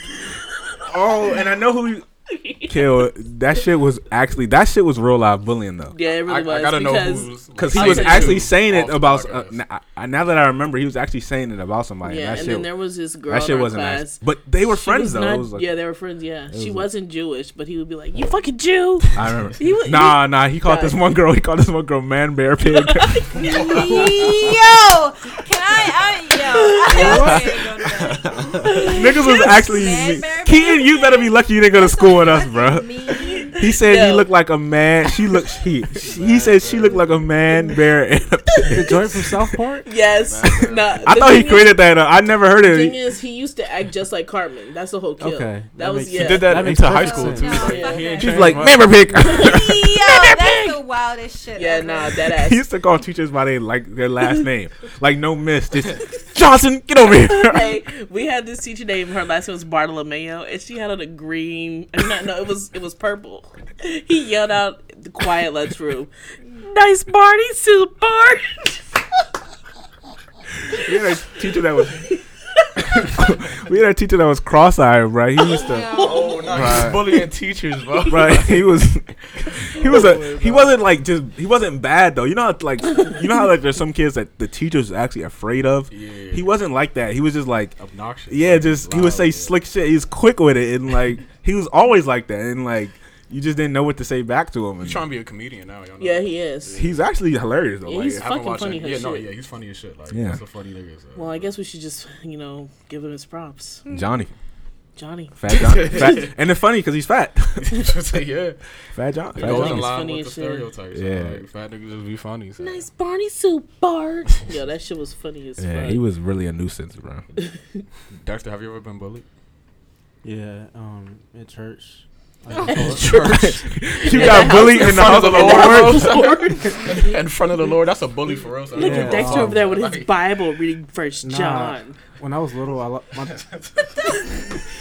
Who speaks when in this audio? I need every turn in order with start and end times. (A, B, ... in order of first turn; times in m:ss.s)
0:00.8-0:02.0 A
0:02.3-0:03.1 B
0:02.6-0:06.0 A
0:05.9-0:08.5 B
0:06.1-0:09.6 C
0:07.6-0:12.7 A
0:12.0-0:21.0 B
0:13.3-0:15.7 A
0:16.5-0:16.9 A
0:19.2-0:23.7 A
0:23.2-0:24.3 B
0:23.4-0:24.2 C
0:23.4-0:33.6 D
0:26.6-0:27.5 B
0:26.9-0:27.3 E
0:27.0-0:27.4 A
0:28.3-0:28.7 C
0:28.6-0:29.2 B
0:28.8-0:32.9 A
0:33.1-0:34.3 B
0:33.6-0:39.1 A
0:36.0-0:37.3 C
0:38.7-0:39.9 E
0:39.8-0:41.8 B
0:40.0-0:41.2 C
0:41.0-0:43.0 A
0:42.5-0:46.6 B
0:45.2-0:47.7 E
0:46.1-0:47.3 A
0:46.3-0:48.9 C
0:46.8-0:52.2 D
0:47.5-0:48.2 B
0:48.2-0:50.8 A
0:49.3-0:49.6 B
0:51.6-0:52.6 B
0:52.2-0:57.8 A
0:57.1-1:08.8 B
1:10.7-1:12.1 A
1:12.8-1:17.2 A
1:15.6-1:16.4 D
1:15.9-1:16.4 B
1:16.0-1:20.8 C
1:18.1-1:27.8 A
1:25.9-1:26.5 C
1:27.8-1:29.5 C
1:28.3-1:35.1 A
1:34.8-1:37.0 C
1:36.0-1:36.8 B
1:36.7-1:38.3 A
1:37.8-1:39.3 B
1:38.1-1:41.5 C
1:40.1-1:40.4 A
1:41.2-1:43.8 B
1:43.9-1:44.2 D
1:43.9-1:44.3 A
1:45.0-1:46.3 B
1:45.4-1:48.0 A
1:45.5-1:46.3 C
1:47.6-1:48.6 C
1:48.9-1:49.9 A
1:49.3-1:52.9 C
1:49.4-1:50.7 B
1:50.9-1:51.4 A
1:52.6-1:56.0 B
1:55.6-1:57.2 A
1:57.4-1:57.8 B
1:58.1-1:59.2 C
2:00.2-2:03.2 E
2:02.7-2:10.1 C
2:03.0-2:06.2 A
2:04.1-2:07.2 B
2:08.7-2:12.0 B
2:08.8-2:09.7 E
2:11.2-2:13.4 E
2:13.1-2:14.5 C